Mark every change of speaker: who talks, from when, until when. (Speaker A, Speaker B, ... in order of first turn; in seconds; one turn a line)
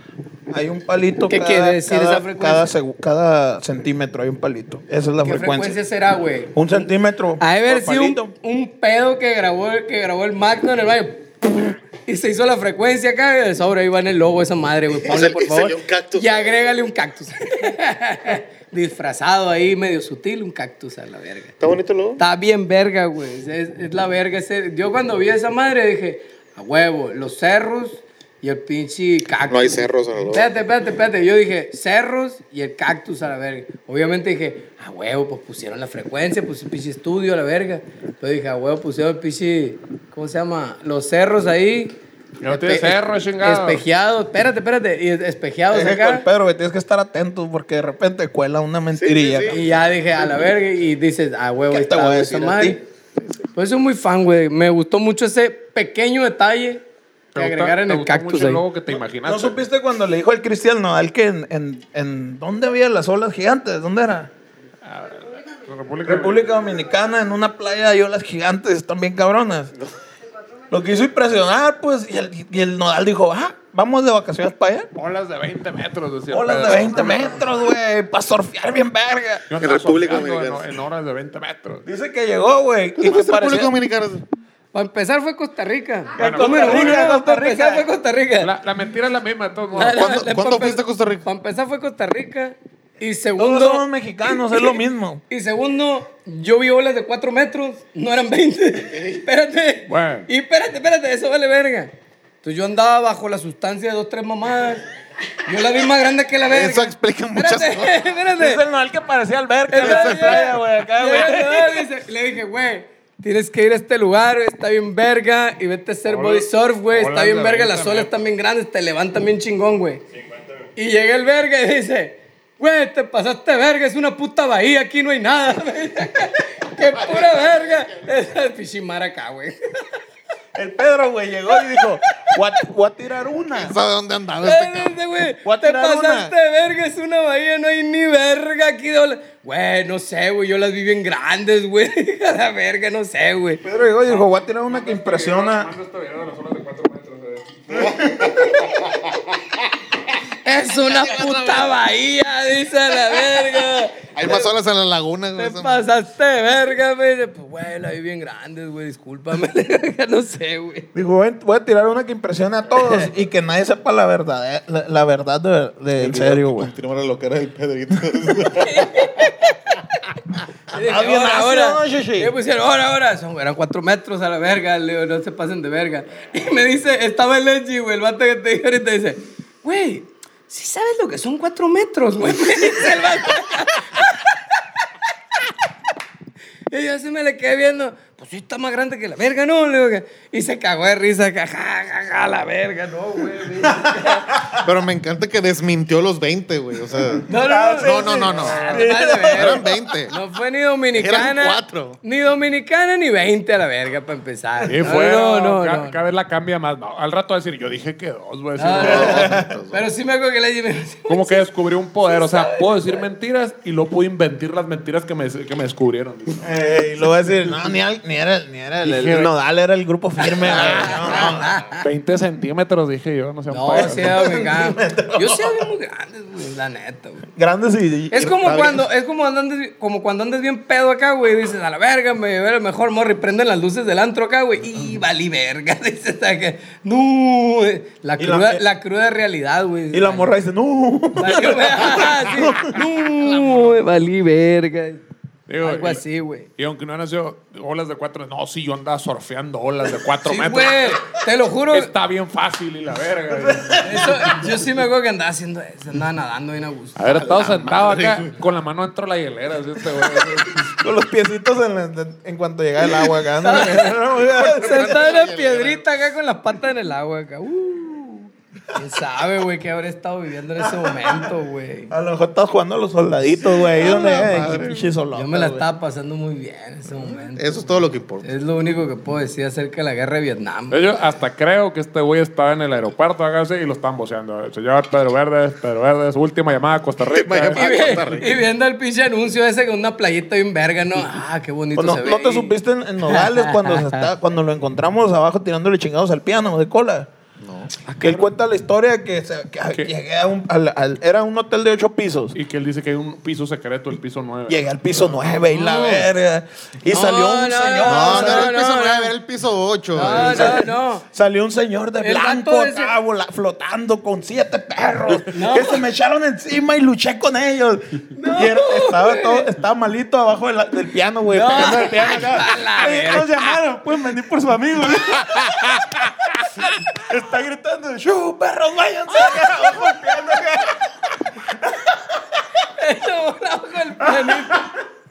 Speaker A: 0.5-5.8
Speaker B: 1.3-2.7
Speaker B: 5.2-21.5
Speaker A: 6.5-8.3
Speaker C: 14.9-16.7
Speaker C: 21.6-22.2
Speaker B: 22.2-46.2
Speaker C: 29.5-30.5
Speaker D: 42.4-43.8
Speaker A: 45.7-49.7
Speaker C: 48.9-49.6
Speaker B: 49.5-52.8
Speaker A: 51.7-52.8
Speaker C: 53.2-53.4
Speaker B: 53.5-56.8
Speaker D: 57.3-59.6
Speaker B: 57.4-58.6
Speaker A: 59.2-64.3
Speaker D: 64.8-66.5
Speaker A: 66.0-69.7
Speaker A: 70.7-74.9
Speaker D: 74.9-77.3
Speaker A: 76.3-79.5
Speaker D: 79.5-81.8
Speaker C: 79.6-80.7
Speaker A: 81.8-83.7
Speaker C: 83.0-84.2
Speaker B: 84.7-88.5
Speaker A: 86.2-87.9
Speaker D: 86.2-87.0
Speaker D: 88.4-90.2
Speaker B: 89.7-94.8
Speaker C: 89.8-91.2
Speaker A: 93.4-95.2
Speaker B: 95.3-104.8
Speaker D: 99.9-100.3
Speaker B: 105.4-108.6
Speaker C: 106.5-108.2
Speaker A: 108.4-111.8
Speaker B: 109.7-120.0
Speaker C: 109.8-110.6
Speaker D: 116.0-118.1
Speaker B: 120.8-129.9
Speaker A: 130.5-133.7
Speaker B: 131.6-132.3
Speaker C: 133.5-134.9
Speaker B: 134.4-143.6
Speaker A: 135.4-136.3
Speaker A: 143.6-145.7
Speaker D: 144.1-147.6
Speaker A: 147.7-148.4
Speaker C: 147.7-148.0
Speaker B: 150.4-154.5
Speaker C: 151.1-151.7
Speaker C: 154.1-155.8
Speaker B: 155.3-160.9
Speaker A: 160.9-166.7
Speaker C: 166.0-169.3
Speaker B: 168.6-170.1
Speaker B: 170.7-184.4
Speaker A: 170.7-172.3
Speaker B: 186.7-194.3
Speaker A: 193.7-194.6
Speaker C: 194.6-200.1
Speaker A: 197.3-199.9
Speaker B: 197.3-206.0
Speaker C: 200.9-202.0
Speaker D: 204.7-209.4
Speaker B: 208.6-211.4
Speaker C: 208.8-209.9
Speaker A: 209.0-209.5
Speaker D: 211.1-216.5
Speaker B: 212.0-213.0
Speaker A: 216.4-221.6
Speaker D: 218.8-219.3
Speaker B: 220.2-221.8
Speaker D: 220.5-224.2
Speaker B: 223.5-227.3
Speaker A: 223.8-225.7
Speaker A: 227.3-228.6
Speaker B: 228.1-240.3
Speaker C: 228.4-228.8
Speaker A: 238.2-238.6
Speaker A: 239.9-242.8
Speaker B: 241.2-245.0
Speaker C: 243.3-243.6
Speaker D: 245.5-246.0
Speaker B: 245.6-246.5
Speaker D: 246.6-253.8
Speaker B: 250.2-251.9
Speaker A: 253.3-254.4
Speaker B: 253.8-257.0
Speaker D: 256.9-260.8
Speaker C: 257.1-258.3
Speaker A: 260.8-265.1
Speaker B: 262.9-271.9
Speaker C: 264.1-265.8
Speaker A: 270.6-271.3
Speaker A: 271.9-275.6
Speaker C: 273.4-274.9
Speaker B: 275.1-280.8
Speaker C: 277.3-278.3
Speaker D: 280.7-287.9
Speaker C: 287.0-288.4
Speaker B: 287.5-294.1
Speaker A: 291.7-297.1
Speaker C: 297.4-297.7
Speaker B: 297.9-298.3
Speaker A: 298.0-302.4
Speaker D: 302.3-305.4
Speaker A: 304.5-308.5
Speaker B: 305.5-306.1
Speaker B: 306.9-309.1
Speaker C: 307.8-310.7
Speaker B: 309.9-311.0
Speaker A: 310.0-332.0
Speaker B: 312.0-312.9
Speaker B: 315.3-315.8
Speaker B: 318.1-319.5
Speaker B: 321.3-323.6
Speaker B: 332.6-334.7
Speaker A: 334.0-334.7